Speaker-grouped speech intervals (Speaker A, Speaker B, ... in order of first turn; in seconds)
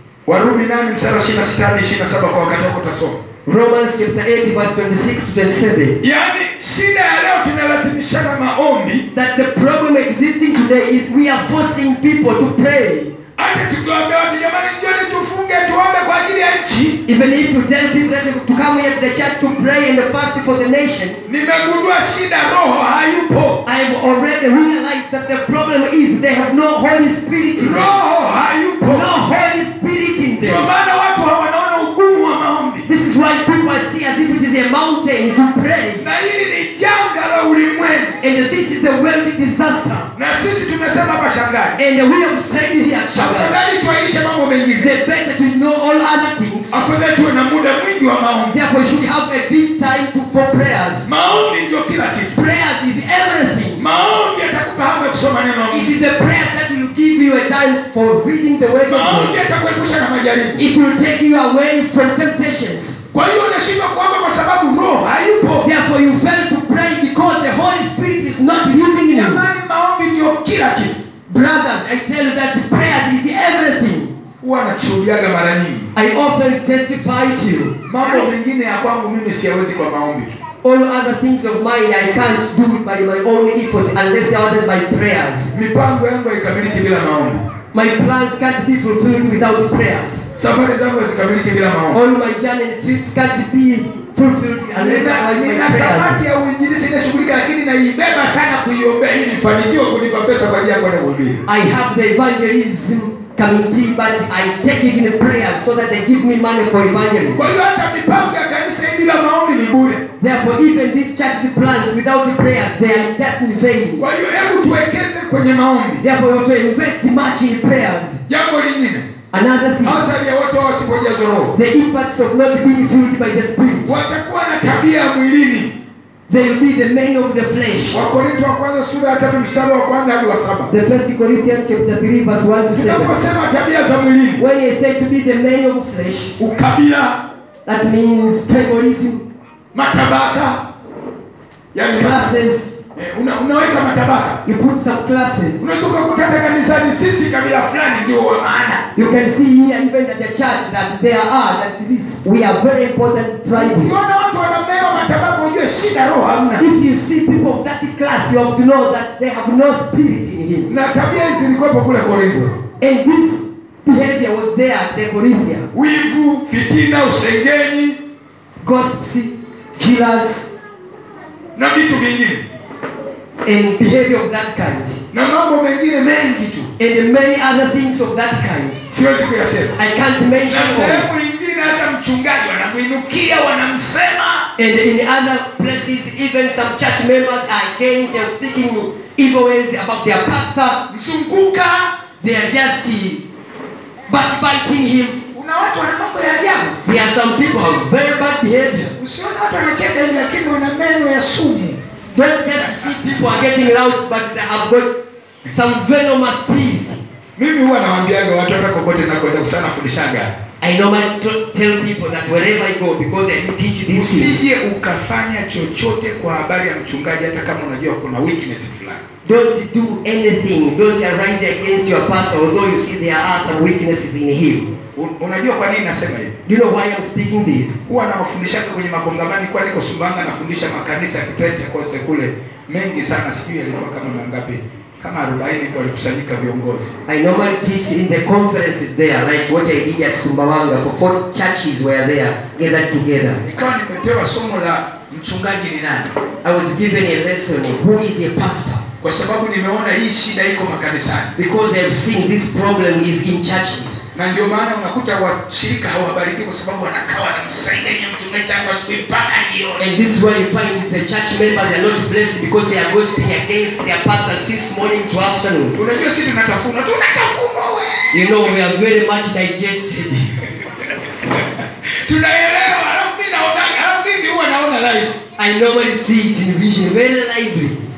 Speaker A: 0.3-3.2, 6.0-9.1, 13.4-17.0, 21.3-23.6, 27.6-29.1, 30.4-32.9, 36.0-38.2, 40.1-41.8, 43.1-44.9, 46.7-48.6, 51.0-52.4, 53.8-56.0, 58.9-60.6, 63.1-65.7, 69.1-71.0, 74.4-75.9, 77.9-80.4, 85.5-87.5, 90.4-92.0, 94.7-101.4, 107.4-110.0, 114.0-116.0, 118.3-119.1, 119.8-121.5, 123.9-125.7, 127.9-130.7, 132.7-134.4, 136.4-137.2, 139.7-140.6, 141.7-142.4, 142.9-144.4, 145.6-148.9, 153.5-156.6, 160.7-162.6, 165.7-168.0, 171.6-172.4, 175.1-176.7, 178.9-179.8, 180.5-184.5, 190.9-191.9, 195.3-196.8, 199.0-201.8, 202.6-203.0, 207.4-210.3, 213.9-219.0, 224.9-226.4, 227.9-236.9, 243.4-246.2, 249.0-251.3, 254.2-259.9, 265.8-268.5, 272.1-275.1
Speaker B: 3.5-6.0, 9.1-13.1, 17.1-21.2, 23.6-27.9, 28.8-30.7, 32.9-36.0, 38.2-40.1, 41.8-43.6, 44.8-46.8, 48.5-51.0, 52.3-53.8, 55.7-59.4, 60.6-63.0, 65.6-69.5, 71.3-74.2, 76.0-77.8, 80.6-85.5, 87.7-90.2, 91.9-96.2, 101.5-107.5, 110.2-114.0, 116.0-118.2, 119.3-120.1, 121.5-124.0, 126.3-128.0, 130.7-133.2, 134.4-136.3, 137.7-139.3, 141.9-142.7, 144.4-145.6, 149.0-153.9, 156.6-160.7, 162.8-165.7, 168.6-170.5, 173.4-175.0, 176.8-178.8, 179.8-181.1, 184.6-190.8, 192.2-193.2, 194.1-195.2, 196.8-198.9, 202.1-205.0, 205.5-207.0, 210.6-214.4, 219.2-224.7, 226.5-227.8, 237.1-243.4, 246.4-248.8, 251.4-254.0, 259.8-265.8, 268.1-270.4, 275.4-277.8